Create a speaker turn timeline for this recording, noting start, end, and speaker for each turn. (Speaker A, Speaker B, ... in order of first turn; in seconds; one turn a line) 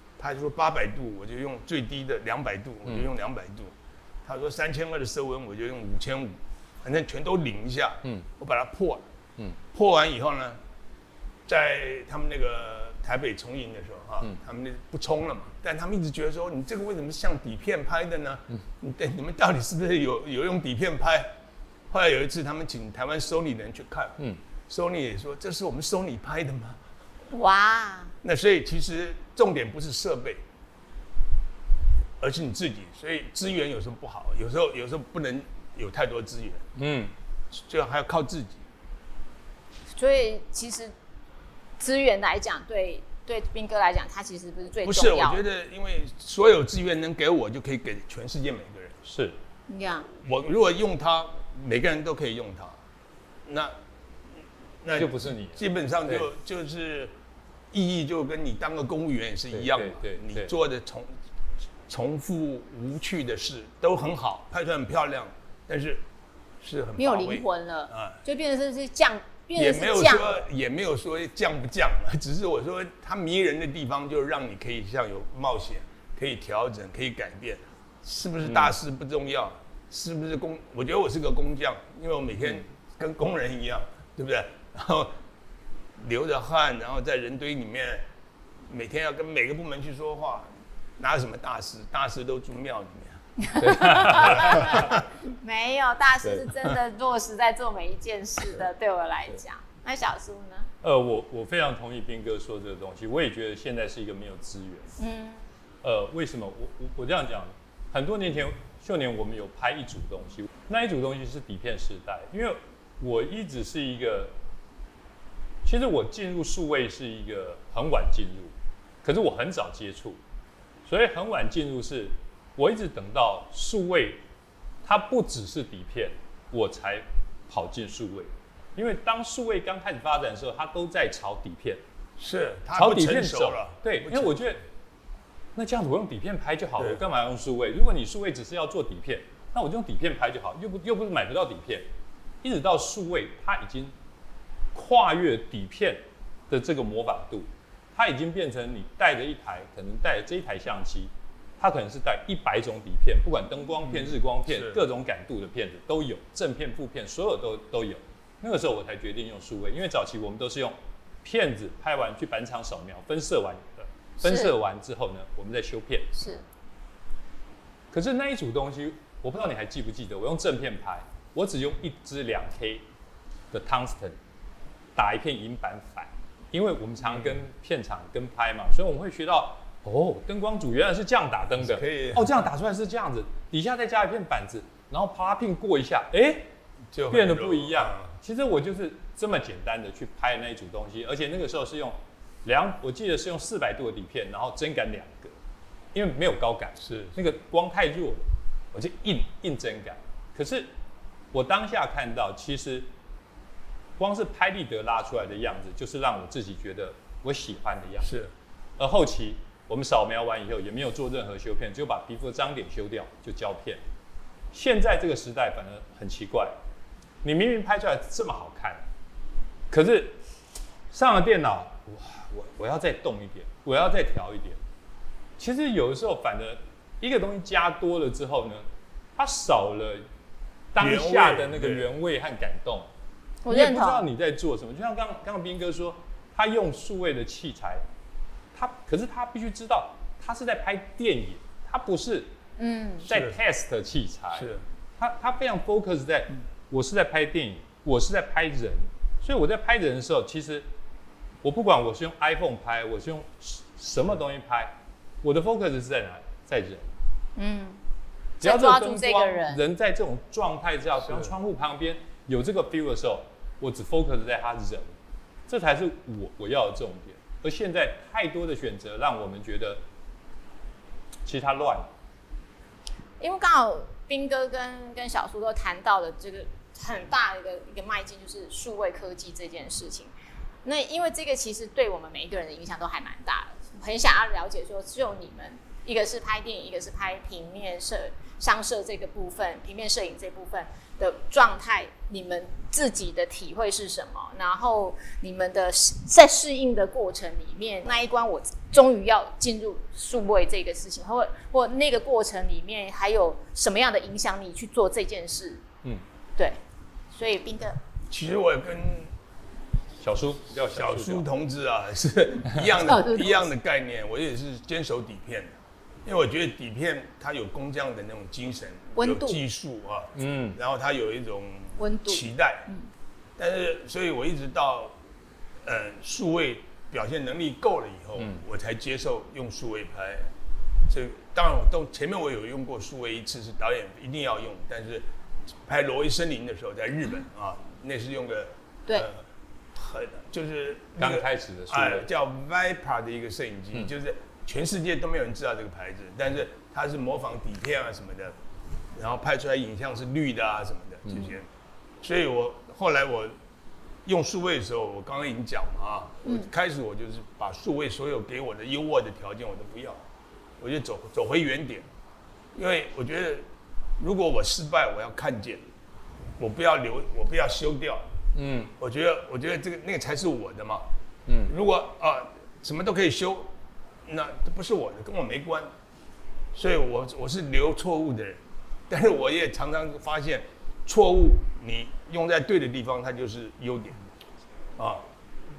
Speaker A: 0.2-3.7
Speaker A: 4.2-9.0
Speaker A: 9.7-10.6
Speaker A: 11.4-21.3
Speaker A: 21.9-26.8
Speaker B: 27.3-28.1
Speaker A: 28.2-30.4
Speaker A: 32.2-36.6
Speaker C: 36.8-37.1
Speaker A: 37.5-38.6
Speaker B: 39.9-40.9
Speaker B: 41.8-45.4
Speaker A: 44.8-49.0
Speaker C: 49.0-49.4
Speaker B: 49.7-50.1
Speaker A: 50.1-52.8
Speaker A: 53.5-53.7
Speaker A: 54.8-57.1
Speaker C: 54.9-56.3
Speaker A: 57.7-61.1
Speaker C: 59.5-60.5
Speaker A: 61.9-66.0
Speaker A: 66.6-68.2
Speaker B: 67.0-70.5
Speaker A: 69.6-85.1
Speaker C: 78.4-78.7
Speaker A: 86.0-88.0
Speaker A: 88.7-93.2
Speaker B: 93.5-100.7
Speaker C: 93.5-94.9
Speaker A: 94.0-95.0
Speaker C: 96.2-96.5
Speaker C: 100.8-105.0
Speaker B: 105.0-105.4
Speaker C: 105.8-114.3
Speaker C: 115.6-120.2
Speaker C: 120.8-124.2
Speaker C: 124.8-131.8
Speaker A: 132.2-134.3
Speaker C: 132.7-134.6
Speaker C: 135.6-141.9
Speaker C: 142.4-143.9
Speaker C: 144.7-166.2
Speaker A: 153.8-154.8
Speaker B: 164.2-164.5
Speaker B: 166.2-166.4
Speaker C: 167.9-172.8
Speaker C: 173.5-174.2
Speaker C: 174.9-186.5
Speaker A: 177.0-177.4
Speaker A: 181.5-182.3
Speaker A: 186.9-188.1
Speaker C: 187.1-195.3
Speaker C: 195.9-200.7
Speaker A: 196.8-197.2
Speaker C: 201.3-202.9
Speaker C: 204.0-208.1
Speaker A: 208.0-208.3
Speaker C: 208.8-213.8
Speaker C: 214.5-216.5
Speaker C: 217.2-218.8
Speaker C: 219.7-220.2
Speaker C: 220.9-224.6
Speaker C: 225.4-230.1
Speaker C: 230.7-232.9
Speaker A: 230.8-231.9
Speaker B: 233.4-234.0
Speaker C: 233.5-237.8
Speaker C: 238.5-242.3
Speaker B: 242.6-243.1
Speaker C: 243.0-250.7
Speaker A: 243.1-243.3
Speaker A: 244.3-244.6
Speaker C: 251.4-256.9
Speaker B: 257.4-257.8
Speaker B: 258.4-259.6
Speaker C: 258.4-269.8
Speaker C: 271.2-271.9
Speaker B: 273.2-280.1
Speaker B: 280.6-305.6
Speaker B: 307.1-307.8
Speaker A: 308.1-309.1
Speaker C: 310.0-311.3
Speaker A: 310.7-322.7
Speaker B: 312.8-313.5
Speaker B: 318.9-319.4
Speaker C: 320.1-320.6
Speaker B: 321.8-322.9
Speaker A: 323.4-325.0
Speaker A: 325.6-330.3
Speaker C: 328.1-328.4
Speaker A: 330.9-335.0
Speaker A: 335.6-339.2
Speaker A: 339.7-348.4
Speaker C: 341.0-342.1
Speaker A: 348.9-351.5
Speaker C: 351.0-351.3
Speaker A: 352.0-353.4
Speaker A: 354.0-360.0
Speaker A: 360.6-361.9
Speaker A: 362.5-363.4
Speaker A: 364.0-365.6
Speaker A: 366.4-368.1
Speaker C: 368.3-368.7
Speaker A: 368.8-370.9
Speaker C: 371.3-371.5
Speaker A: 371.5-373.5
Speaker A: 374.1-375.7
Speaker A: 376.5-384.0
Speaker A: 384.8-385.0